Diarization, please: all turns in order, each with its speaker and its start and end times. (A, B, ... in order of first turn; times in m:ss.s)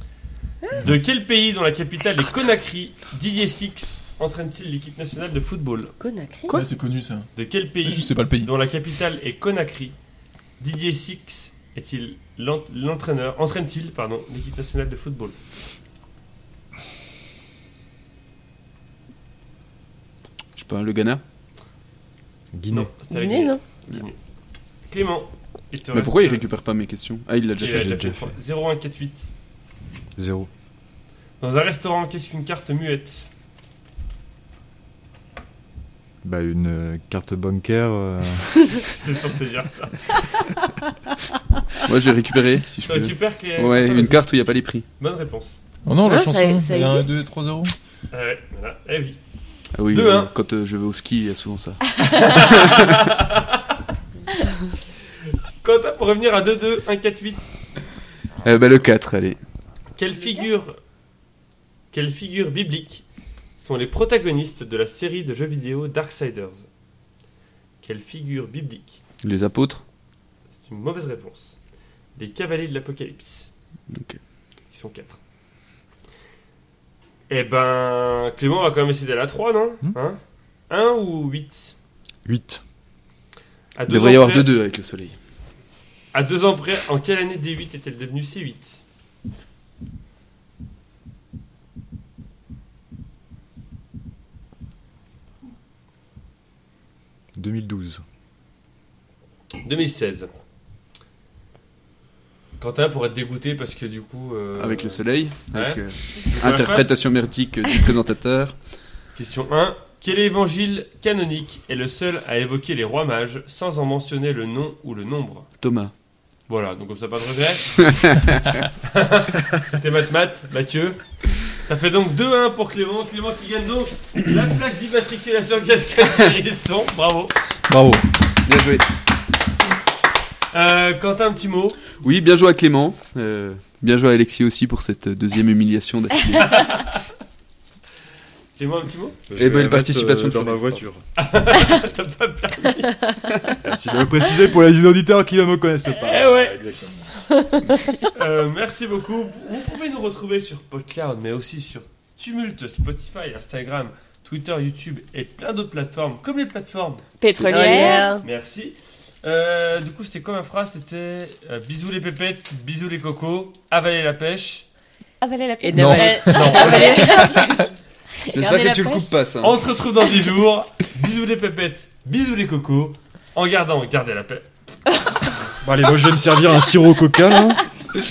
0:00.8-0:05.9 A
0:06.0-0:06.6 B
0:06.5-0:07.3 C
0:07.3-0:09.9 A
0:07.8-0:08.5 C
0:10.6-0:15.4 A
0:20.6-0:21.2 D
0:22.5-0:22.9 E
0:22.7-0:24.2 A
0:23.1-0:23.6 B
0:24.9-0:26.4 A
0:25.9-0:28.2 D
0:27.6-0:28.4 E
0:27.6-0:29.3 A
0:30.2-0:30.5 E
0:31.4-0:33.3 A
0:36.2-0:38.9 E
0:39.0-0:40.3 A
0:41.8-0:44.8 D
0:42.8-0:44.3 A
0:45.0-0:45.6 A
0:45.8-0:47.7 C
0:46.0-0:47.2 B
0:48.1-0:49.2 A
0:49.7-0:53.1 D
0:49.9-0:50.3 A
0:52.0-0:53.6 A
0:55.6-0:57.4 A
0:58.4-0:59.4 D
0:59.9-1:00.8 A
1:01.9-1:03.0 A
1:03.6-1:06.7 A
1:07.8-1:09.0 A
1:09.2-1:09.8 D
1:10.6-1:11.6 A
1:12.2-1:13.5 A
1:13.9-1:14.2 D
1:14.7-1:15.2 A
1:17.3-1:20.2 A
1:20.7-1:21.7 A
1:22.2-1:22.6 E
1:23.8-1:24.5 A
1:23.9-1:25.2 D
1:26.1-1:28.8 A
1:37.4-1:38.0 E
1:39.6-1:40.3 A
1:42.6-1:47.0 A
1:44.6-1:48.6 D
1:49.2-1:55.5 A
1:55.6-1:55.9 D
1:56.5-1:58.2 A
1:58.1-1:58.6 D
1:58.8-2:07.3 A
2:07.7-2:08.0 C
2:08.4-2:08.8 D
2:10.5-2:11.8 A
2:12.0-2:16.7 D
2:16.4-2:17.0 A
2:18.6-2:19.2 A
2:19.3-2:21.0 E
2:19.4-2:20.8 D
2:21.2-2:23.0 A
2:23.6-2:27.1 E
2:26.0-2:26.6 A
2:27.3-2:28.1 B
2:28.1-2:37.0 A
2:37.2-2:38.2 F
2:37.4-2:38.2 B
2:37.6-2:44.7 A
2:45.2-2:47.7 F
2:45.6-2:47.7 B
2:45.7-2:46.7 C
2:46.2-2:47.3 A
2:48.2-2:49.0 F
2:48.3-2:49.6 D
2:49.4-2:54.5 A
2:55.6-2:57.6 E